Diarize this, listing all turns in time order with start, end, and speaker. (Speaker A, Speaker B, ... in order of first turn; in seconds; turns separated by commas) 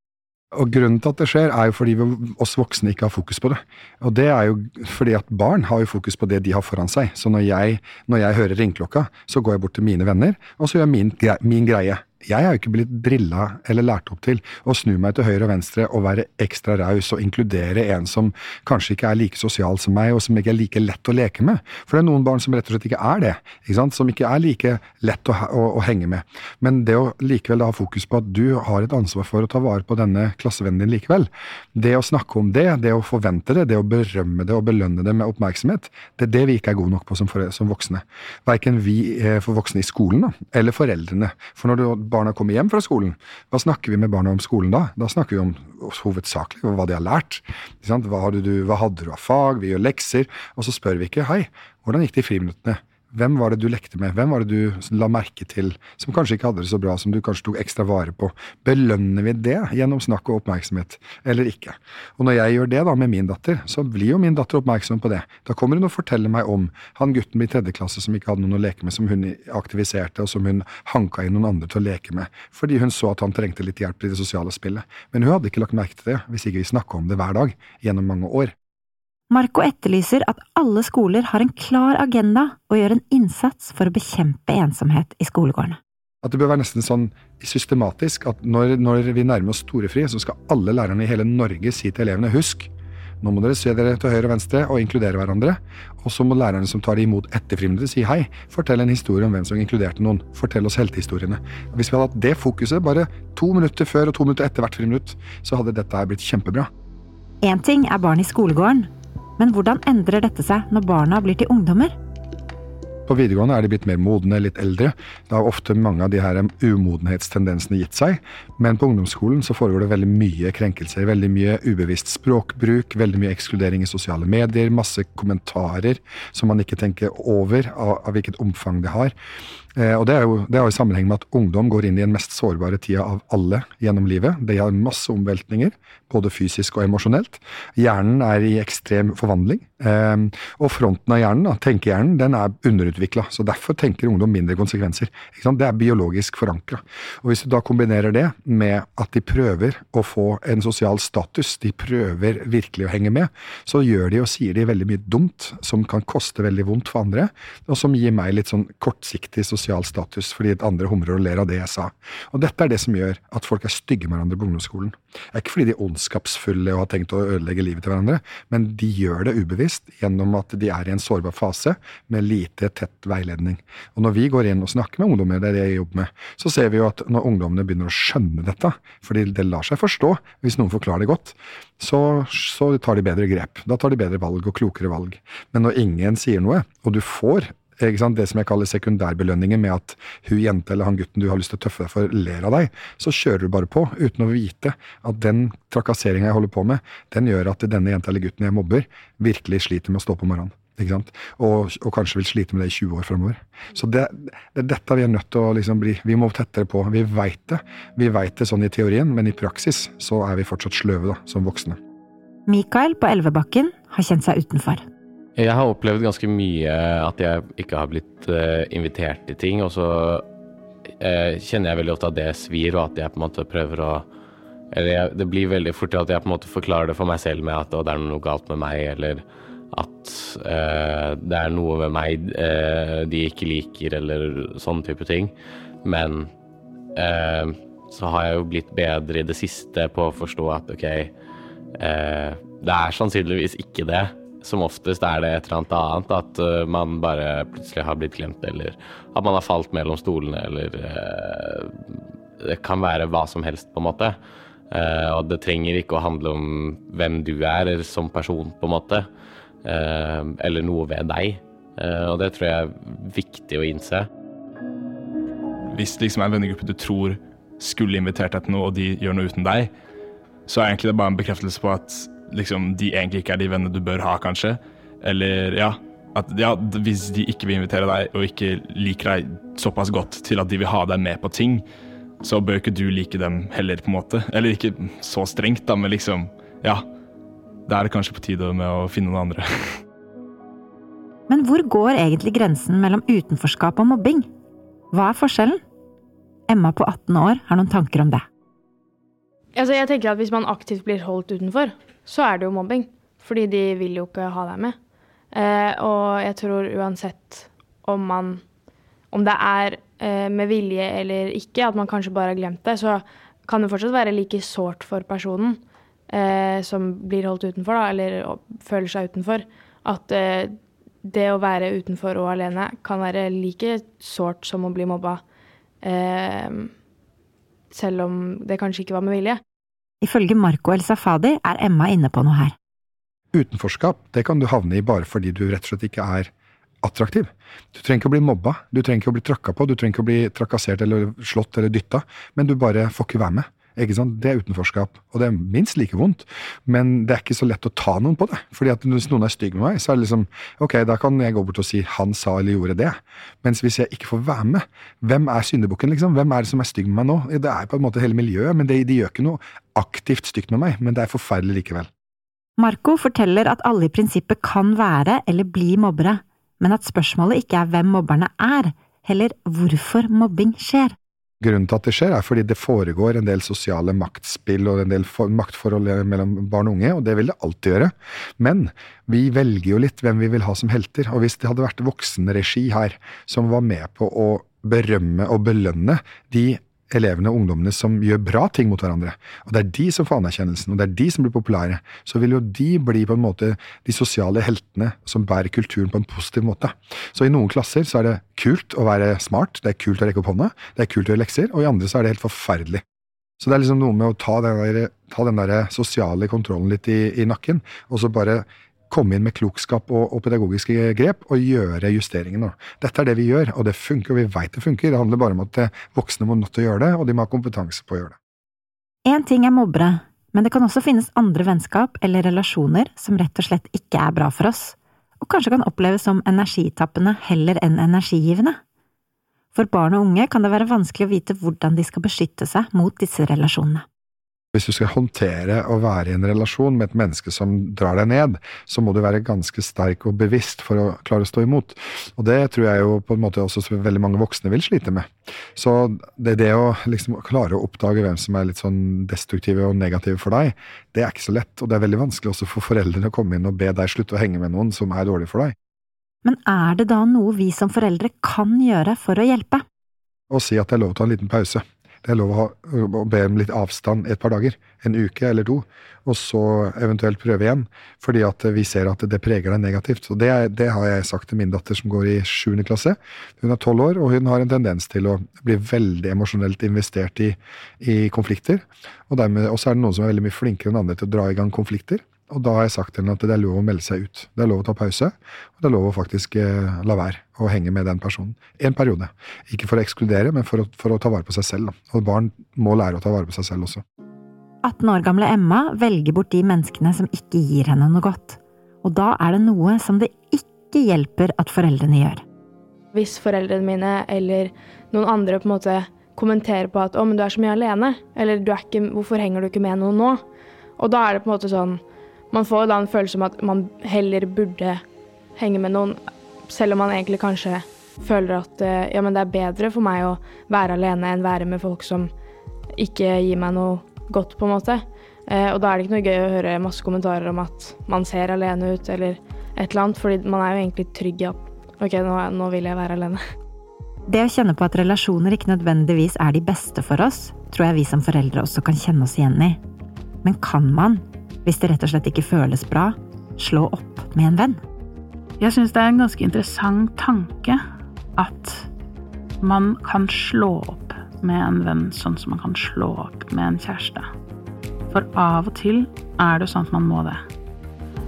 Speaker A: 0.6-78.5, Speaker B: 79.3-85.8, Speaker A: 86.2-92.7, Speaker A: 93.2-106.7, Speaker B: 107.4-112.0, Speaker A: 113.1-129.1, Speaker A: 129.8-211.8, Speaker B: 212.5-214.8, Speaker C: 215.4-220.2, Speaker C: 221.0-224.1, Speaker C: 224.7-236.3, Speaker C: 237.0-241.1, Speaker C: 241.8-251.8, Speaker C: 252.4-254.2, Speaker C: 254.7-259.1, Speaker C: 259.6-264.1, Speaker D: 265.7-269.7, Speaker D: 270.5-281.7, Speaker D: 282.2-286.9, Speaker D: 287.7-289.8, Speaker B: 291.3-294.3, Speaker B: 294.9-295.6, Speaker B: 296.5-298.2, Speaker E: 299.6-304.8, Speaker E: 305.3-308.4, Speaker E: 309.1-315.6, Speaker E: 316.1-320.5, Speaker E: 321.0-325.2, Speaker E: 325.8-326.7, Speaker E: 327.7-329.4, Speaker B: 330.0-332.6, Speaker A: 333.3-336.3, Speaker A: 336.8-361.9, Speaker B: 362.6-370.9, Speaker A: 371.4-402.8, Speaker A: 403.4-418.2, Speaker B: 419.1-428.6, Speaker B: 429.5-433.9, Speaker A: 434.5-455.5, Speaker B: 456.2-459.6, Speaker A: 460.3-493.8, Speaker B: 494.6-502.2, Speaker E: 502.9-510.2, Speaker E: 510.8-511.8, Speaker E: 512.3-514.8, Speaker E: 515.4-522.1, Speaker E: 522.8-533.2, Speaker B: 534.1-539.6, Speaker B: 540.2-544.6, Speaker F: 545.4-547.6, Speaker F: 548.2-548.7, Speaker F: 549.4-554.1, Speaker F: 554.9-557.2